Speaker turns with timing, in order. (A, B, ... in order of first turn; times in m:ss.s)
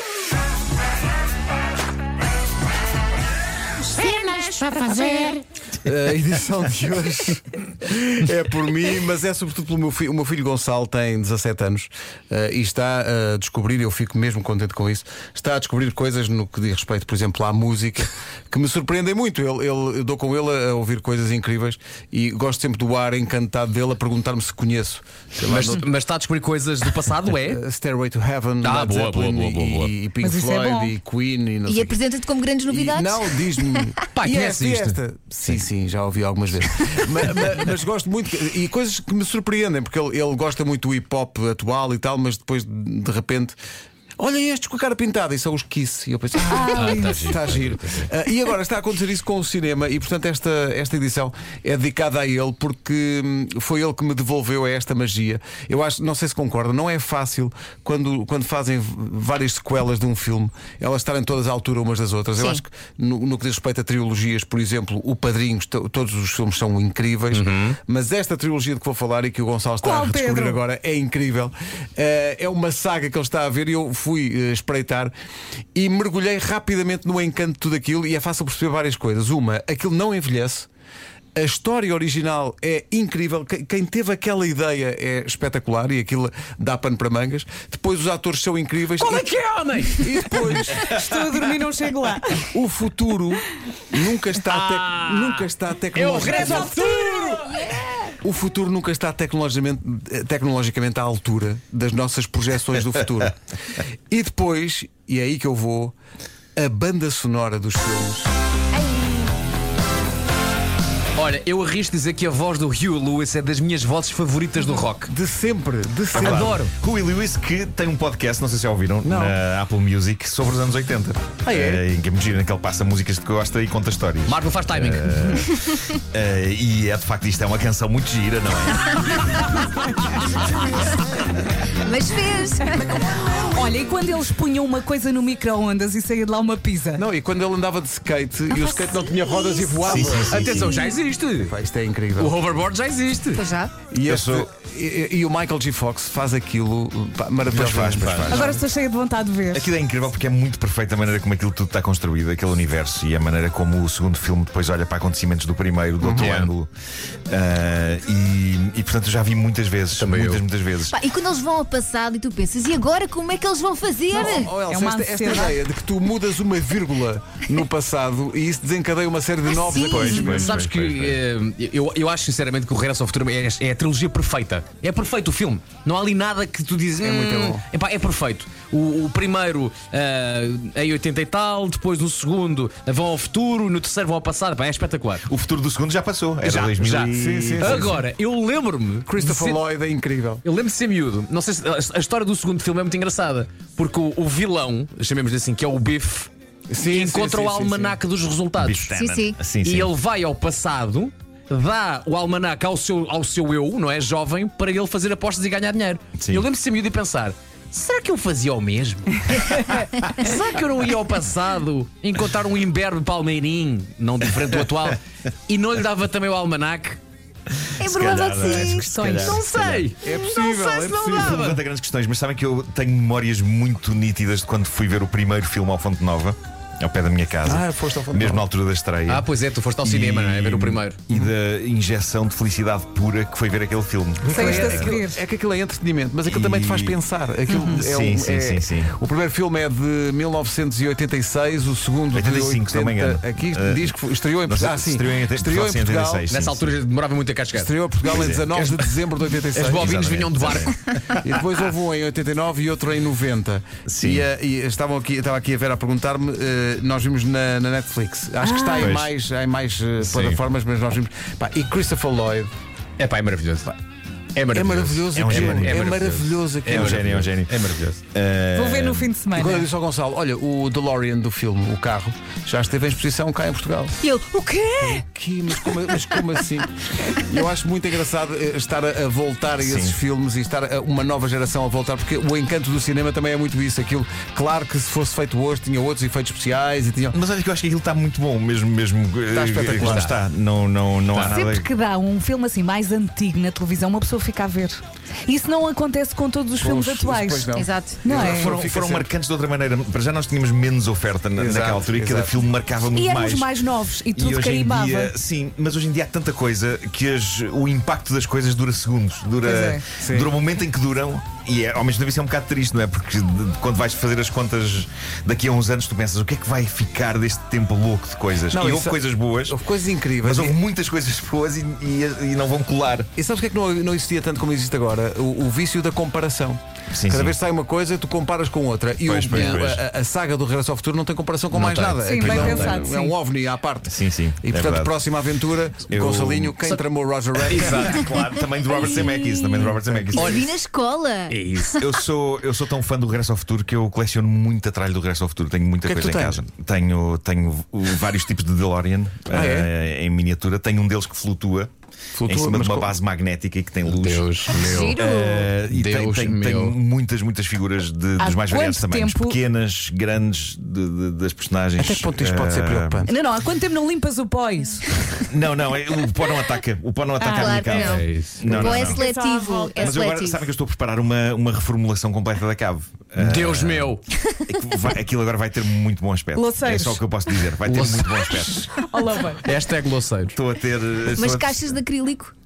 0:05.8-0:25.9 A
0:25.4-0:27.6 B
0:27.4-0:32.0 A
0:28.6-0:30.0 B
0:30.2-0:30.9 C
0:31.7-0:33.9 D
0:32.7-0:43.6 A
0:34.1-0:35.0 B
0:44.2-1:15.1 A
0:46.5-0:47.4 C
0:46.7-0:48.1 B
1:02.4-1:02.6 D
1:07.3-1:07.8 B
1:09.8-1:10.6 C
1:15.8-1:20.7 A
1:21.4-1:29.2 A
1:29.0-1:30.9 B
1:30.0-1:31.0 A
1:30.7-1:32.5 C
1:32.4-1:46.0 A
1:34.4-1:37.7 B
1:36.3-1:36.9 C
1:46.6-1:48.3 A
1:48.7-1:49.3 D
1:51.2-1:55.1 B
1:55.0-1:56.6 A
1:56.1-2:09.5 E
1:56.2-1:56.7 B
1:59.0-1:59.4 A
2:01.5-2:01.8 A
2:04.3-2:05.5 B
2:11.8-2:13.3 D
2:13.3-2:17.0 C
2:17.0-2:20.7 A
2:18.5-2:19.2 C
2:19.3-2:19.6 D
2:19.8-2:20.8 E
2:20.0-2:21.5 B
2:20.4-2:21.0 C
2:21.4-2:22.4 A
2:22.2-2:23.4 B
2:23.3-2:23.8 D
2:23.9-2:28.6 A
2:24.0-2:24.5 E
2:27.5-2:28.6 E
2:28.3-2:29.7 C
2:29.5-2:36.7 E
2:36.0-2:36.3 A
2:36.1-2:36.5 B
2:37.3-2:41.0 E
2:39.9-2:40.4 B
2:40.9-2:44.5 D
2:44.1-2:50.6 A
2:44.1-2:45.6 C
2:49.5-2:50.4 D
2:49.8-2:51.2 E
2:50.2-3:05.3 B
2:57.0-2:57.6 A
3:05.2-3:08.0 E
3:06.4-3:09.6 B
3:07.1-3:08.0 A
3:09.1-3:10.4 A
3:10.4-3:16.3 B
3:16.7-3:18.0 A
3:16.8-3:18.9 B
3:18.6-3:19.9 E
3:18.9-3:19.4 D
3:19.5-3:37.0 B
3:26.2-3:26.5 E
3:37.8-3:39.9 D
3:37.8-3:39.4 E
3:38.4-3:39.4 C
3:39.0-3:41.6 B
3:40.0-3:41.4 A
3:41.1-3:49.3 E
3:47.4-3:48.4 A
3:49.1-3:51.0 B
3:49.8-3:55.0 E
3:54.2-4:06.3 A
3:54.3-3:55.2 C
3:56.2-3:57.0 E
3:57.5-3:57.8 C
3:57.7-3:58.9 E
4:02.1-4:06.7 E
4:06.3-4:07.7 B
4:07.5-4:10.0 A
4:08.0-4:09.0 E
4:09.5-4:10.8 B
4:09.6-4:11.0 E
4:11.1-4:22.5 A
4:13.9-4:14.3 E
4:18.4-4:18.8 B
4:18.8-4:19.1 E
4:20.0-4:20.4 B
4:23.0-4:23.7 B
4:24.4-4:28.0 B
4:24.5-4:27.1 A
4:25.1-4:25.9 E
4:26.6-4:27.6 E
4:28.1-4:29.1 E
4:28.5-4:29.7 C
4:29.3-4:34.0 A
4:34.0-4:35.0 D
4:34.8-4:47.2 A
4:35.7-4:36.0 D
4:39.6-4:40.0 E
4:47.1-4:51.7 E
4:49.3-4:50.1 A
4:49.8-4:50.2 B
4:51.3-4:58.5 C
4:56.6-4:59.1 A
4:57.5-4:58.2 D
4:58.1-5:03.5 E
5:01.4-5:02.4 A
5:02.9-5:05.1 C
5:04.1-5:19.6 E
5:09.4-5:09.8 C
5:10.0-5:10.3 A
5:18.5-5:20.6 A
5:20.2-5:23.1 E
5:23.2-5:38.0 A
5:26.9-5:27.4 E
5:29.0-5:29.8 E
5:29.3-5:29.7 B
5:31.5-5:32.9 B
5:32.0-5:33.2 C
5:33.8-5:35.1 E
5:35.9-5:36.6 E
5:37.4-5:38.9 B
5:37.6-5:40.5 E
5:38.9-5:41.9 D
5:40.2-5:40.5 B
5:41.3-5:41.8 B
5:41.7-5:51.7 E
5:45.8-5:46.4 A
5:49.3-5:49.7 A
5:52.1-5:52.9 A
5:52.3-6:03.1 E
5:53.8-5:55.0 B
5:54.6-5:55.5 D
5:55.6-5:56.8 B
5:58.2-5:59.4 C
6:01.8-6:03.1 A
6:03.1-6:05.2 C
6:05.3-6:09.0 E
6:07.2-6:07.9 C
6:07.3-6:10.5 D
6:07.8-6:08.9 B
6:08.6-6:10.0 C
6:09.8-6:18.9 E
6:13.2-6:14.0 B
6:16.4-6:17.0 C
6:17.7-6:18.6 B
6:18.7-6:19.4 C
6:19.4-6:20.4 B
6:20.3-6:21.8 E
6:21.1-6:22.3 D